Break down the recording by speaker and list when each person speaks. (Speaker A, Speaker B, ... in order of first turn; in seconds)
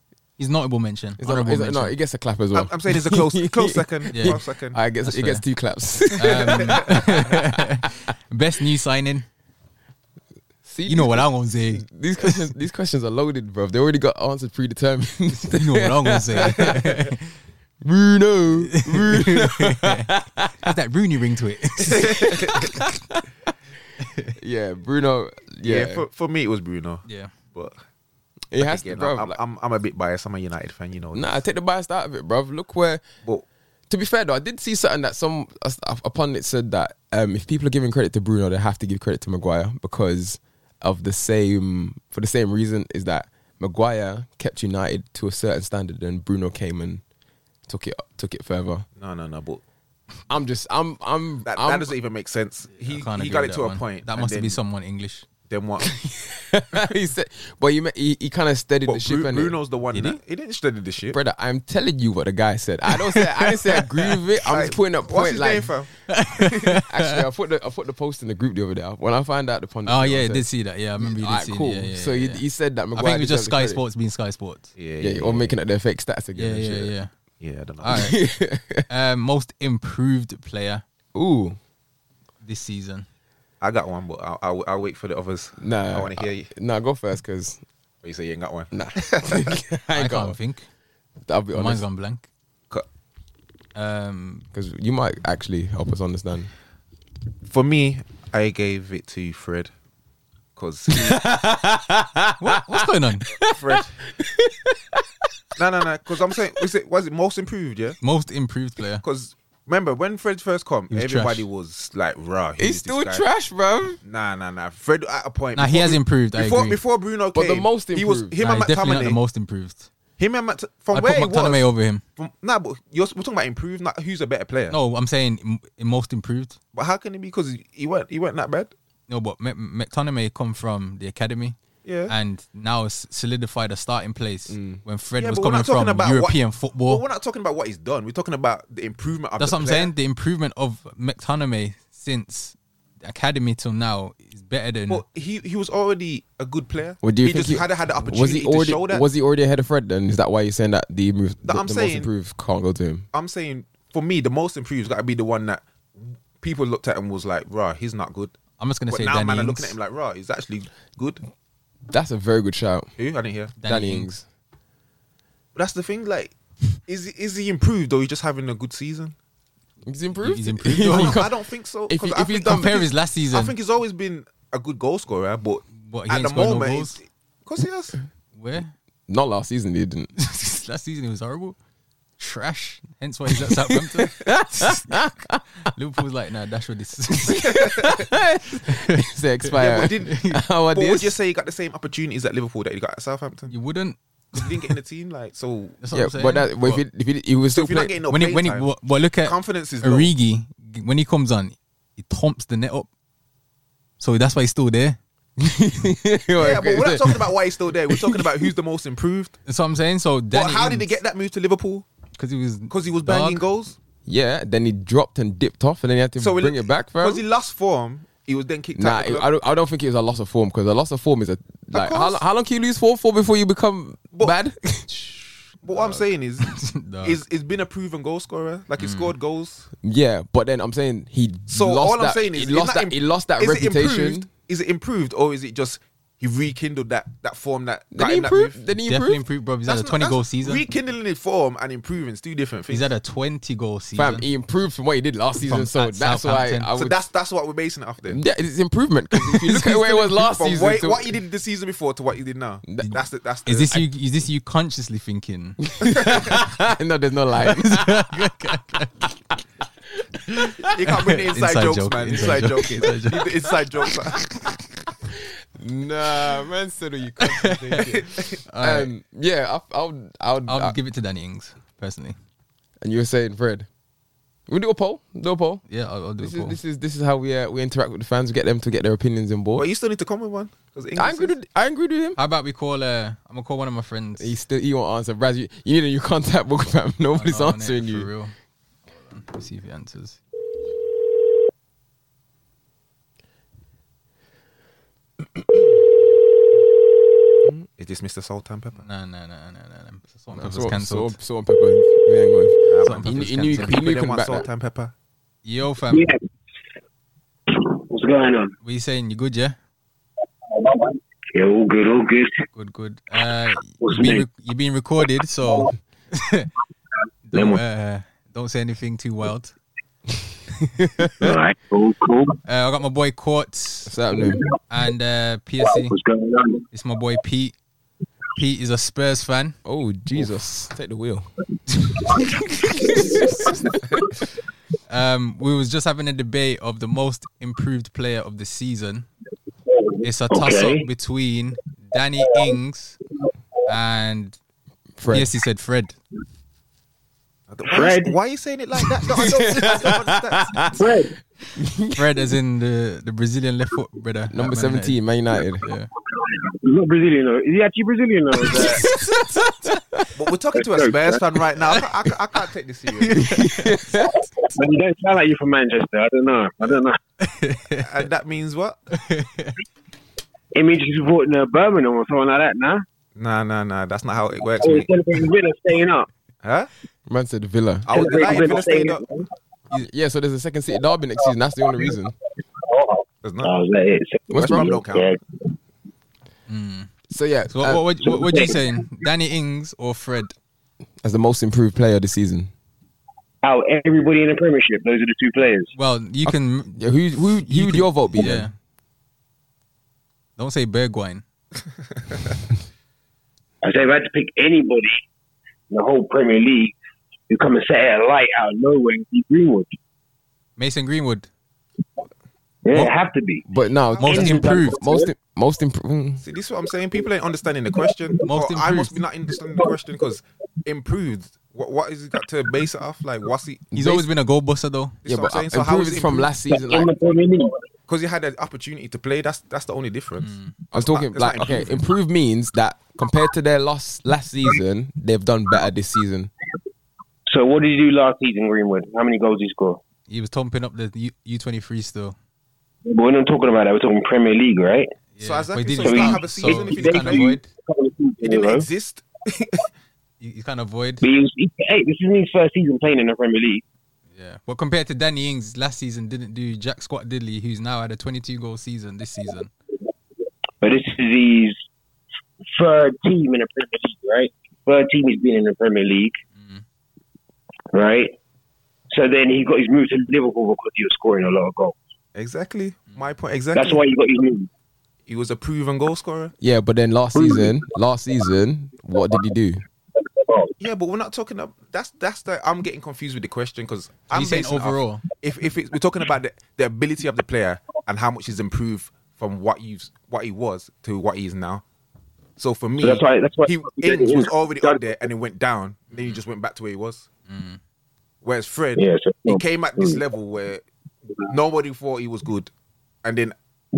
Speaker A: 0.4-1.9, 4.1-4.4, 5.0-5.4, 6.1-9.3, 10.8-12.4, 15.5-17.3, 18.7-22.8, 24.0-24.3, 27.1-27.3, 52.8-55.3, 59.9-60.2, 62.9-63.8, 66.1-67.2, 69.8-72.4, 72.9-74.7, 76.3-77.1, 77.8-78.2, 78.9-80.8, 82.4-83.1, 89.9-90.7, 91.5-92.2, 93.7-94.5, 102.4-103.3, 108.0-109.0, 110.9-111.5, 115.5-116.8, 118.4-119.9, 120.9-122.0, 124.7-126.6, 129.1-131.6, 132.1-137.0, 139.4-145.0, 158.6-159.8, 163.6-164.1, 170.2-171.2, 172.4-173.5, 175.8-177.0, 178.3-178.7, 180.2-181.6, 182.2-185.0, 185.7-187.7, 188.6-190.4, 193.5-194.7, 195.8-196.8, 198.1-202.9, 204.0-205.0, 209.5-210.9, 212.2-213.4, 224.9-227.2, 228.8-229.1, 238.8-240.7, 242.7-244.3, 245.4-246.7, 253.4-256.2, 257.4-259.1, 260.3-263.4, 267.2-268.9, 270.5-272.2, 275.7-276.6, 282.1-284.4, 287.1-288.3, 288.9-290.2, 298.8-301.2, 302.8-303.8, 305.4-306.1, 308.6-309.6, 312.5-316.5, 317.3-319.5, 322.4-323.9, 324.7-325.9, 326.7-327.5, 328.4-329.6, 334.9-339.1, 340.0-343.0, 343.6-344.4, 345.1-346.0, 351.9-355.0, 355.6-355.9, 358.5-359.8, 363.0-363.8, 367.2-367.9, 368.9-369.6, 386.5-386.9, 387.5-390.4, 395.7-398.5, 400.4-401.2, 410.6-411.3, 414.0-414.8, 418.2-419.0, 423.7-425.0, 430.2-430.5, 440.1-442.2, 445.1-447.5, 450.2-451.1, 454.1-459.5, 466.3-466.6, 484.1-485.0, 495.9-496.2, 497.3-497.6
Speaker B: 1.2-7.5, 10.6-17.1, 17.8-20.7, 21.9-23.2, 24.4-26.0, 28.5-29.4, 31.1-33.0, 33.9-47.0, 47.7-48.9, 50.3-51.9, 55.8-59.6, 61.1-65.7, 66.5-70.5, 71.0-73.8, 75.0-76.9, 77.9-78.9, 81.1-81.6, 85.6-87.6, 88.7-90.4, 91.3-91.8, 94.5-96.5, 100.9-105.3, 112.6-114.0, 117.3-118.4, 134.5-134.8, 147.0-153.1, 161.9-162.9, 163.6-164.2, 169.8-171.3, 171.9-172.8, 179.1-180.1, 183.3-185.4, 187.3-191.1, 195.9-197.9, 205.4-207.3, 207.9-208.5, 214.0-217.2, 218.7-224.9, 229.8-234.3, 237.9-239.2, 243.9-246.9, 248.1-251.1, 252.7-252.9, 255.7-258.3, 265.1-270.8, 272.8-273.7, 274.5-275.6, 276.2-279.6, 280.9-282.2, 284.2-288.1, 300.4-304.5, 320.8-321.3, 323.9-324.4, 329.6-331.3, 331.9-334.0, 345.0-345.3, 349.1-350.8, 351.6-352.0, 354.3-355.6, 358.6-360.1, 363.2-364.2, 377.1-377.9, 379.7-382.1, 384.3-384.8, 387.1-387.9, 391.0-392.5, 396.2-398.5, 413.5-416.2, 423.7-424.1, 425.1-426.9, 430.7-436.3, 476.4-479.6
Speaker C: 2.5-4.8, 25.6-27.8, 28.6-31.3, 49.0-49.6, 51.5-54.6, 55.5-55.9, 58.9-61.2, 64.4-65.9, 74.8-75.5, 77.4-78.1, 83.6-86.5, 88.0-88.7, 89.2-89.6, 97.5-99.7, 100.5-101.2, 103.4-104.0, 105.5-108.0, 109.0-113.2, 114.0-119.2, 120.2-124.8, 126.7-128.7, 131.8-132.1, 135.2-139.9, 144.9-149.0, 151.4-152.1, 153.1-158.3, 158.9-161.2, 163.0-163.5, 165.5-166.3, 166.8-169.1, 170.8-178.0, 187.3-188.0, 189.6-193.5, 194.3-195.8, 197.5-198.7, 199.2-200.1, 206.4-209.4, 210.3-211.8, 212.7-213.8, 216.2-219.3, 221.7-222.2, 225.6-229.7, 231.5-238.6, 239.7-242.9, 246.7-248.2, 249.1-253.8, 260.6-264.2, 279.6-281.3, 297.8-298.8, 302.7-304.9, 347.5-350.9, 360.1-363.2, 367.8-368.8, 373.1-374.9, 376.4-376.7, 377.9-379.0, 383.2-383.5, 384.3-385.2, 413.9-414.2, 416.2-423.7, 425.0-426.3, 427.9-431.8, 445.2-447.3, 448.2-449.7, 472.1-473.8, 475.1-476.3, 480.6-491.6, 492.4-497.1, 498.2-500.6, 501.2-502.5, 503.0-503.3
Speaker D: 305.9-306.2, 307.5-308.5, 310.5-312.4, 313.8-314.2, 317.3-317.6, 321.2-322.4, 324.1-324.4, 325.6-326.6, 332.8-333.7, 339.7-340.9, 347.7-348.1, 350.8-351.1, 356.1-358.9, 360.5-361.2, 364.3-367.0, 370.5-372.8, 374.6-376.1, 377.9-379.3, 381.2-385.2, 388.0-388.8, 393.4-395.7, 403.6-405.0, 405.7-406.8, 407.3-409.7, 412.6-413.5, 414.0-415.1, 419.3-419.8, 426.5-427.6, 437.3-439.8, 442.8-444.9, 445.8-448.7, 451.0-453.6, 460.6-461.6, 462.5-466.1, 467.7-468.1, 468.9-471.7, 473.5-474.5, 477.1-477.6, 479.9-480.5, 492.8-494.9, 498.8-500.0